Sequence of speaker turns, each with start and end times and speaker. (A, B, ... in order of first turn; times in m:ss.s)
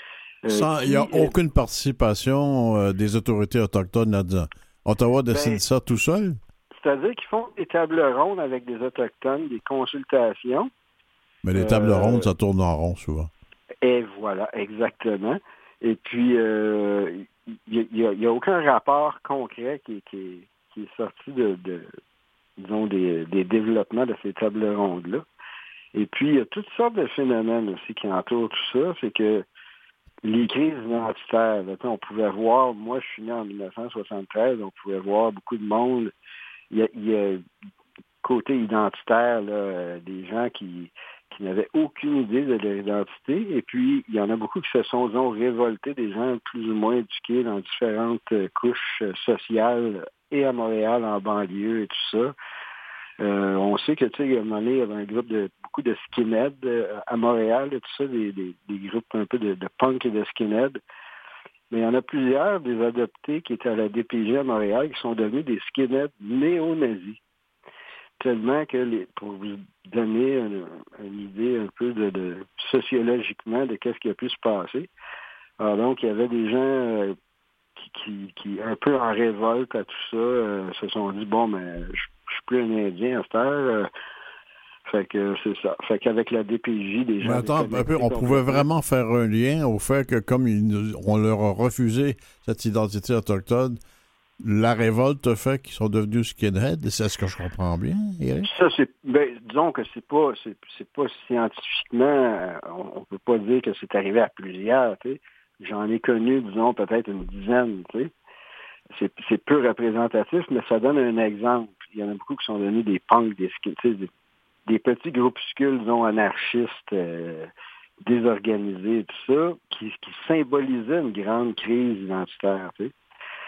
0:00.4-0:01.3 A
0:00.5-0:06.4 B
0:05.3-0:05.6 A
0:06.8-0:10.7 A
0:11.4-0:13.3 B
0:11.5-0:12.3 A
0:13.8-0:21.9 A
0:22.6-0:25.2 A
0:25.9-0:29.4 A
0:30.2-0:36.1 A
0:36.7-0:37.4 A
0:38.2-0:52.3 A
0:53.2-1:00.8 A
1:01.7-1:07.2 A
1:08.2-1:14.9 A
1:15.6-1:17.2 A
1:17.8-1:23.9 A
1:24.9-1:28.6 A
1:27.2-1:33.8 B
1:34.4-1:38.5 B
1:38.4-1:48.1 A
1:48.9-1:54.1 A
1:54.7-1:57.5 A
1:58.0-2:02.9 A